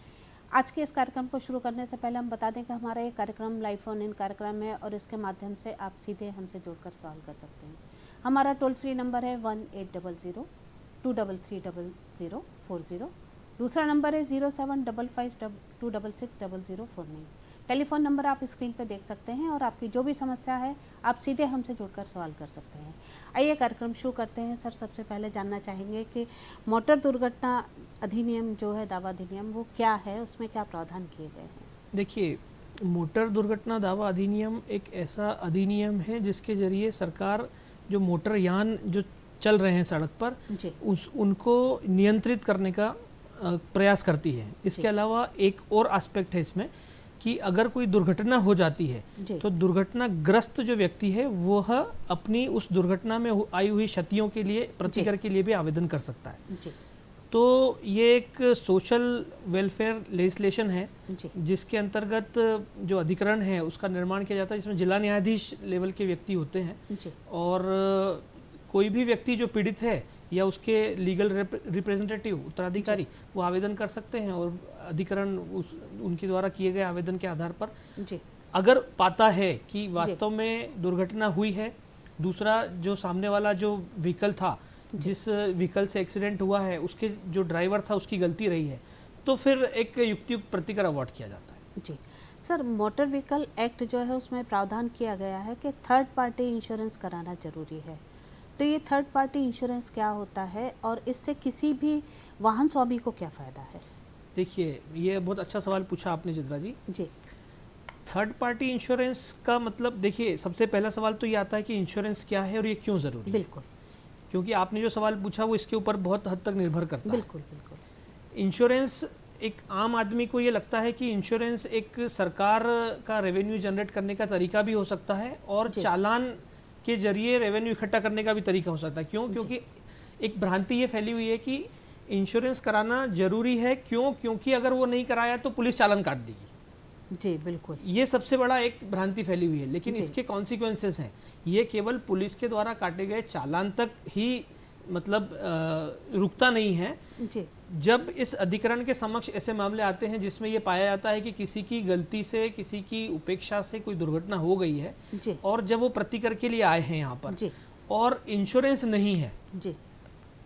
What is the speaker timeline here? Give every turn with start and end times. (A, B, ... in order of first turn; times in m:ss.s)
0:00.5-0:10.5 A
0:11.0-0:31.7 A
0:31.9-0:46.7 B
0:40.5-0:40.8 A
0:47.2-0:56.4 B
0:49.2-0:49.4 A
0:56.5-0:56.8 A
0:57.3-1:17.7 B
1:06.9-1:07.2 A
1:18.5-1:31.6 B
1:31.8-1:38.0 A
1:38.6-1:43.8 A
1:44.3-1:46.8 B
1:48.0-1:53.4 B
1:53.3-1:53.6 A
1:54.3-1:57.2 B
1:57.0-1:57.8 A
1:58.3-2:16.5 B
2:17.1-2:17.8 A
2:17.8-2:27.0 B
2:19.8-2:20.1 A
2:27.2-2:27.5 A
2:27.7-2:39.4 B
2:35.1-2:35.4 A
2:37.3-2:37.5 A
2:39.5-2:39.8 A